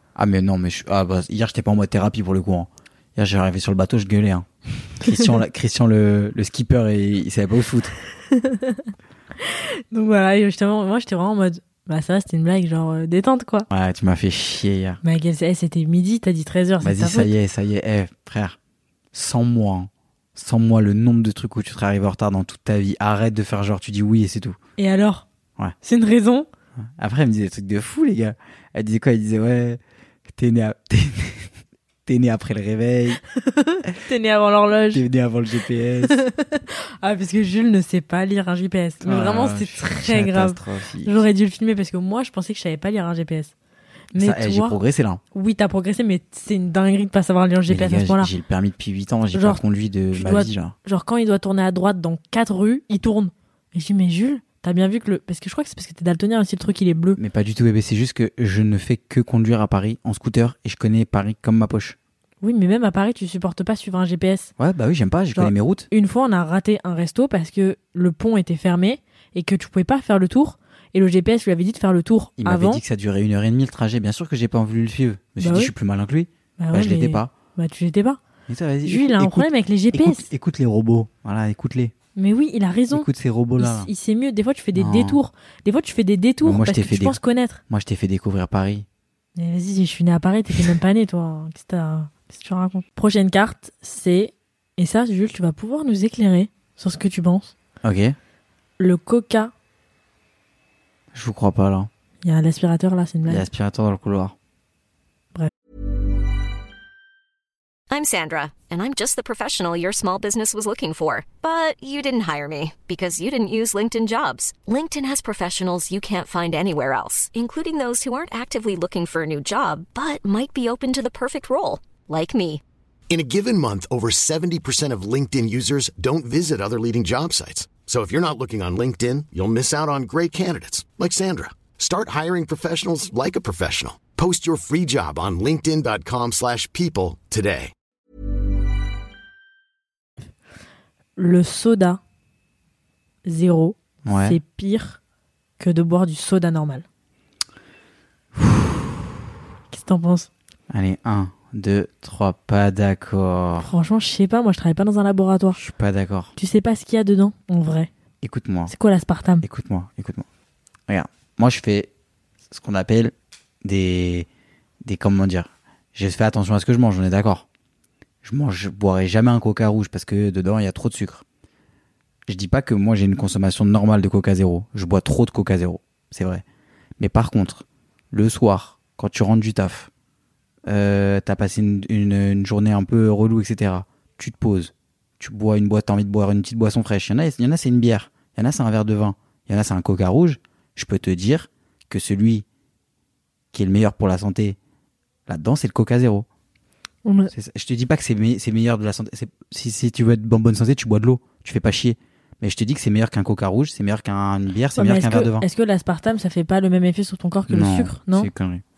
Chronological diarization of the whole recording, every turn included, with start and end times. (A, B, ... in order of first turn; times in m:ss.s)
0:00.2-0:07.9 A
0:05.0-0:05.3 B
0:08.3-0:08.8 B
0:09.4-0:13.7 B
0:13.7-0:15.0 A
0:15.0-0:17.3 B
0:16.8-0:18.6 A
0:19.1-0:24.6 A
0:24.8-0:25.3 B
0:25.8-0:26.5 B
0:26.8-0:31.5 A
0:32.1-0:33.2 A
0:33.4-0:35.0 B
0:34.9-0:36.2 A
0:36.0-0:43.5 B
0:39.0-0:41.2 A
0:44.1-0:44.8 B
0:44.2-0:45.2 A
0:45.3-0:48.3 B
0:47.7-0:50.8 A
0:49.3-0:49.6 B
0:50.1-0:57.2 B
0:57.2-1:02.0 A
1:02.4-1:04.5 B
1:04.6-1:05.9 A
1:05.4-1:12.8 B
1:12.4-1:17.3 A
1:15.4-1:15.7 B
1:16.6-1:18.2 B
1:18.5-1:21.9 A
1:18.8-1:20.3 B
1:22.2-1:23.1 B
1:22.9-1:23.9 A
1:23.6-1:27.6 B
1:24.7-1:25.2 A
1:26.4-1:28.9 A
1:29.4-1:37.6 B
1:37.8-1:38.2 A
1:38.8-1:39.5 B
1:41.1-1:41.9 A
1:42.2-1:43.5 B
1:43.3-1:44.4 A
1:47.9-2:02.6 C
2:03.1-2:17.7 D
2:21.2-2:22.0 B
2:23.3-2:25.0 B
2:24.0-2:24.4 A
2:25.6-2:26.8 B
2:28.4-2:29.0 A
2:29.7-2:30.3 B
2:30.7-2:33.7 A
2:33.6-2:35.6 B
2:35.5-2:36.3 A
2:36.4-2:37.9 B
2:38.2-2:38.7 A
2:38.7-2:39.4 B
2:39.4-2:40.2 A
2:40.9-2:41.9 A
2:42.5-2:44.3 A
2:44.8-2:47.5 A
2:48.2-2:51.2 A
2:52.3-2:56.4 A
2:57.0-2:59.9 A
3:00.7-3:12.4 A
3:13.5-3:14.6 A
3:15.3-3:16.3 A
3:17.0-3:17.3 B
3:17.3-3:25.5 A
3:24.8-3:28.3 B
3:27.5-3:28.6 A